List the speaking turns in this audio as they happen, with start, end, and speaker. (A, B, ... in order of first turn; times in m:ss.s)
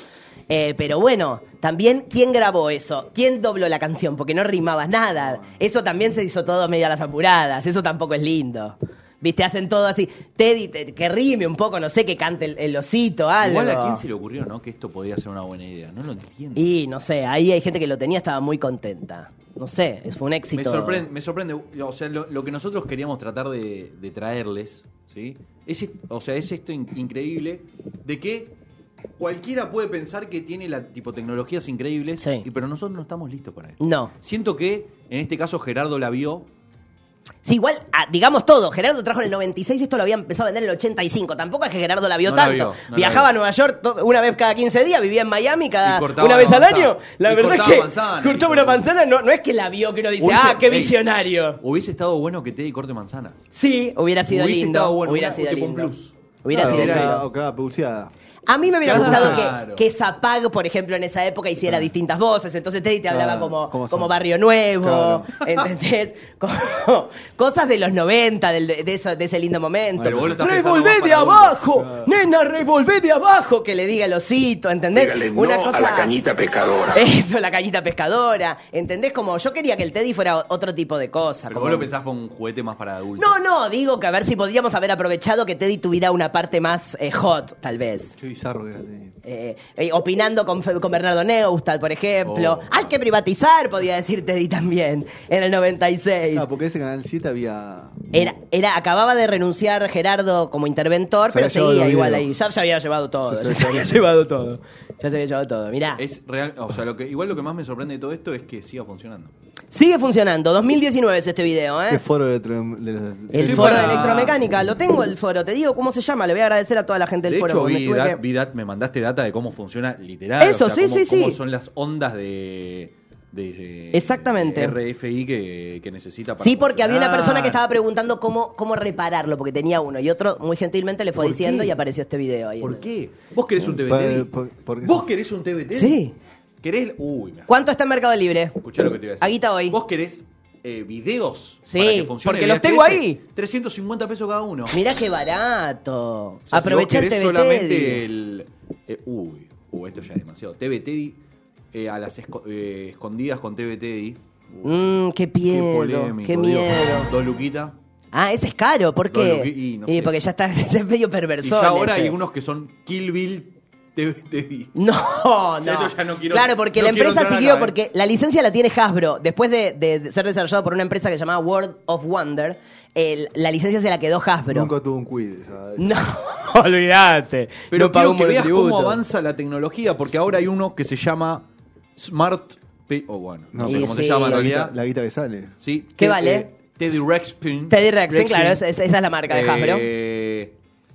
0:00.5-0:14.0 A
0:13.4-0:16.7 B
0:16.6-0:21.1 A
0:20.5-0:28.6 B
0:29.2-0:36.5 B
0:32.2-0:32.5 A
0:33.8-0:34.1 A
0:37.4-0:51.6 A
0:42.2-0:43.3 B
0:45.8-0:48.9 B
0:50.2-0:51.0 B
0:51.6-0:53.4 B
0:53.5-0:57.2 A
0:54.3-0:57.2 B
0:56.5-0:58.1 C
0:58.5-1:16.1 A
0:58.9-0:59.5 C
0:58.9-0:59.9 B
1:03.1-1:04.2 C
1:04.8-1:05.5 C
1:10.0-1:11.6 B
1:11.8-1:12.1 C
1:14.9-1:17.1 D
1:16.9-1:21.9 A
1:21.5-1:23.3 B
1:23.2-1:28.2 A
1:28.2-1:29.2 C
1:29.2-1:36.5 A
1:32.2-1:32.9 B
1:36.3-1:38.3 C
1:38.1-1:46.0 A
1:41.3-1:42.3 C
1:43.2-1:44.0 C
1:46.0-1:49.3 B
1:49.7-1:52.0 A
1:51.9-1:54.4 C
1:53.3-1:58.2 A
1:53.3-1:54.4 B
1:57.3-2:07.6 B
2:00.4-2:01.4 A
2:03.9-2:04.8 A
2:06.4-2:12.9 A
2:11.2-2:11.8 B
2:12.6-2:14.3 B
2:13.6-2:15.0 C
2:14.8-2:16.0 B
2:15.7-2:16.1 A
2:16.6-2:17.5 B
2:17.5-2:18.6 A
2:18.6-2:24.8 B
2:19.2-2:19.8 A
2:21.7-2:23.2 A
2:24.7-2:28.0 A
2:26.5-2:31.2 B
2:31.7-2:34.9 B
2:34.6-2:37.1 A
2:35.5-2:37.8 B
2:38.1-2:42.2 A
2:39.1-2:40.2 B
2:41.4-2:44.7 B
2:44.8-2:54.7 A
2:45.6-2:47.8 B
2:54.5-2:56.0 C
2:55.8-2:59.0 A
2:57.7-3:04.7 B
3:03.5-3:05.6 C
3:03.6-3:04.5 A
3:05.6-3:08.6 B
3:06.0-3:06.5 A
3:07.7-3:09.9 A
3:09.3-3:10.6 B